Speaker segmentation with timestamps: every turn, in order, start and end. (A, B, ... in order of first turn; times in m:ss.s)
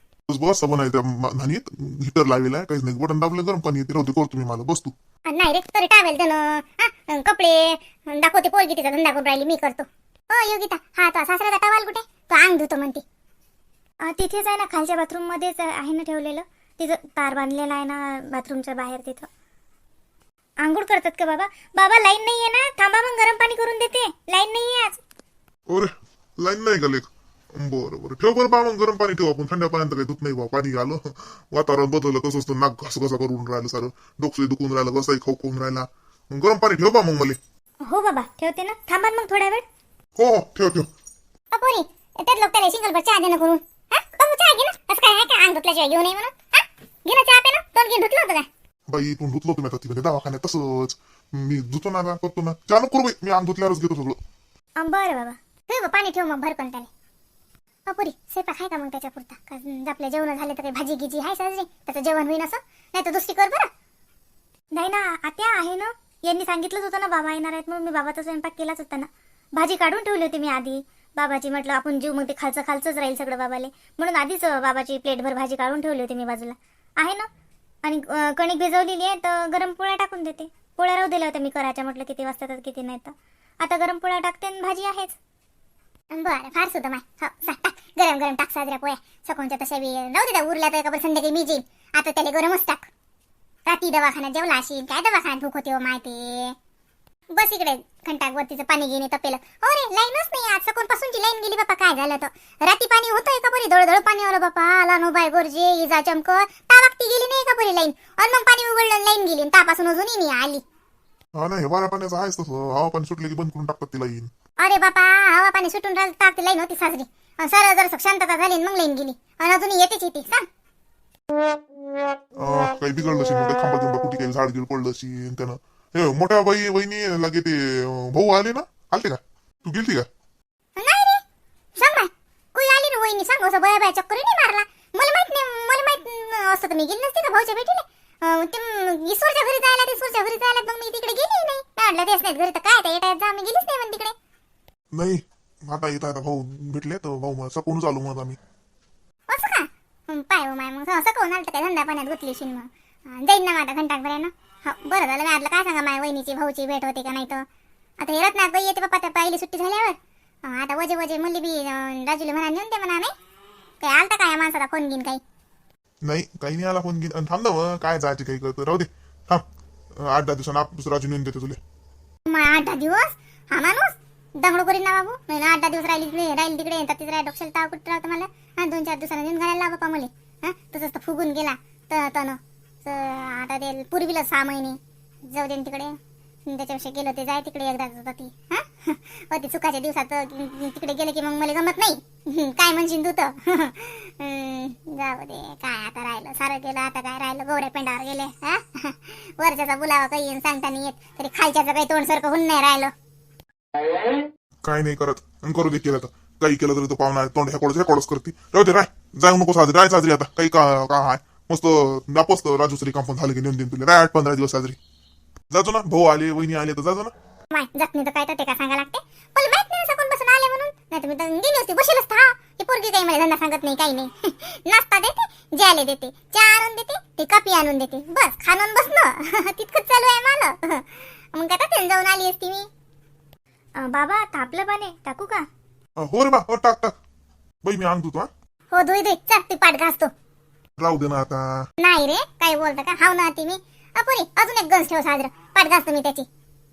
0:00.3-0:04.9 A
0:05.3-0:13.0 B
0:14.0-0:19.3 C
0:20.6-0:25.0 C
0:25.7-0:37.4 A
0:37.8-0:39.6 C
0:40.2-0:40.9 A
0:41.5-0:48.5 B
0:48.9-0:54.2 A
0:54.8-0:55.4 C
0:55.7-0:56.9 B
0:57.9-1:03.7 B
1:04.7-1:17.3 C
1:17.8-1:25.2 C
1:26.1-1:32.9 B
1:33.6-1:36.6 B
1:37.3-1:50.6 B
1:51.3-1:54.3 A
1:54.6-2:00.4 B
2:02.4-2:10.1 A
2:10.8-2:11.2 B
2:11.8-2:24.1 B
2:24.9-2:28.4 A
2:29.3-2:37.4 B
2:38.0-2:43.1 B
2:43.8-2:45.2 B
2:46.0-2:49.4 A
2:50.0-2:51.6 A
2:52.3-3:22.9 B
3:24.6-3:34.8 A
3:35.5-3:37.1 A
3:37.5-3:52.7 B
3:53.8-3:55.4 C
3:56.0-3:56.9 A
3:57.6-3:58.3 A
3:58.7-4:00.1 B
4:00.8-4:01.6 A
4:01.8-4:06.3 B